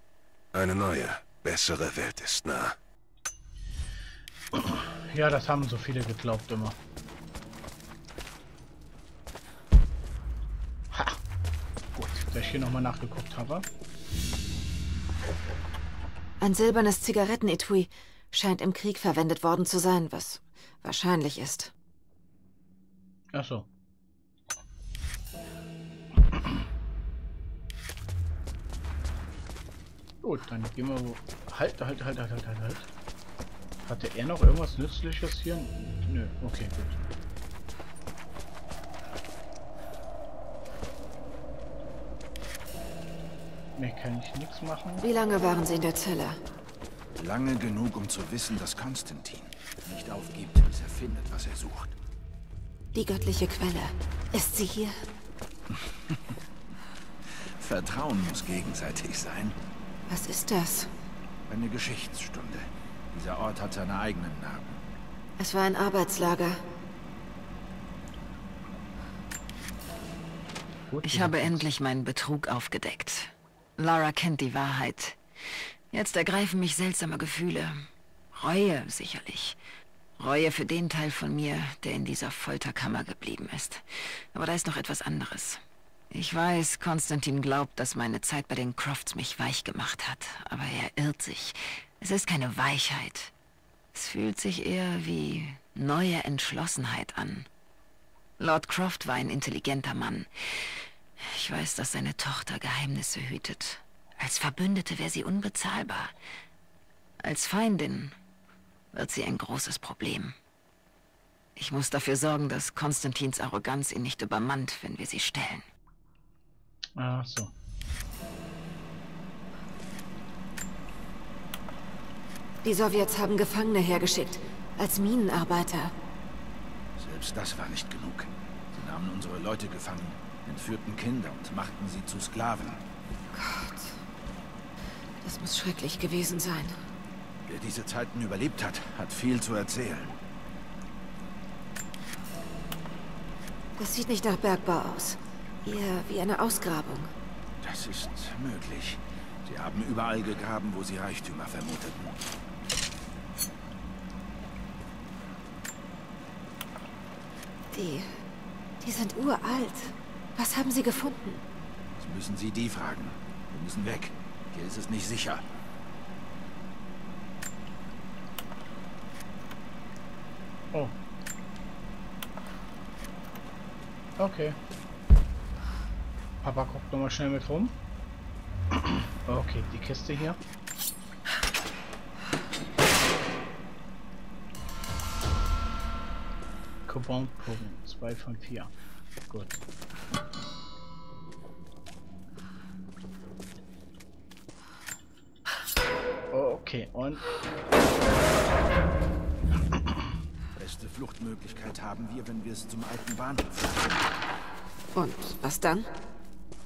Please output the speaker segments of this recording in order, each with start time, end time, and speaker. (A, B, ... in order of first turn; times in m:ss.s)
0:00.5-0:02.8 A
0:04.5-0:06.8 B
0:10.9-0:11.2 B
0:11.9-0:13.6 B
0:16.4-0:21.7 C
0:23.3-0:23.7 B
0:26.3-0:26.6 B
0:30.2-0:32.9 B
0:33.8-0:37.0 B
0:43.8-0:45.0 B
0:45.0-0:46.4 C
0:47.2-0:52.0 D
0:52.9-0:55.0 C
0:57.4-0:59.6 D
1:00.1-1:00.9 C
1:01.5-1:04.8 D
1:05.4-1:06.6 C
1:10.9-1:11.7 B
1:11.0-1:15.2 E
1:15.9-1:19.6 E
1:20.2-1:33.3 E
1:33.9-1:37.5 E
1:38.4-1:46.1 E
1:47.2-1:48.2 E
1:48.9-1:50.4 E
1:51.6-1:55.6 E
1:57.0-1:57.5 B
2:02.6-2:05.9 C
2:07.0-2:12.8 D
2:13.3-2:14.0 C
2:15.2-2:16.8 C
2:17.5-2:20.2 D
2:23.8-2:27.1 C
2:27.6-2:32.2 D
2:37.7-2:38.1 C
2:38.8-2:41.4 C
2:42.0-2:45.4 D
2:54.2-2:54.6 B
2:56.4-2:57.7 B
2:58.7-3:00.4 B
3:06.9-3:08.7 B
3:09.3-3:09.6 B
3:16.3-3:17.2 B
3:20.6-3:24.0 D
3:24.9-3:25.9 C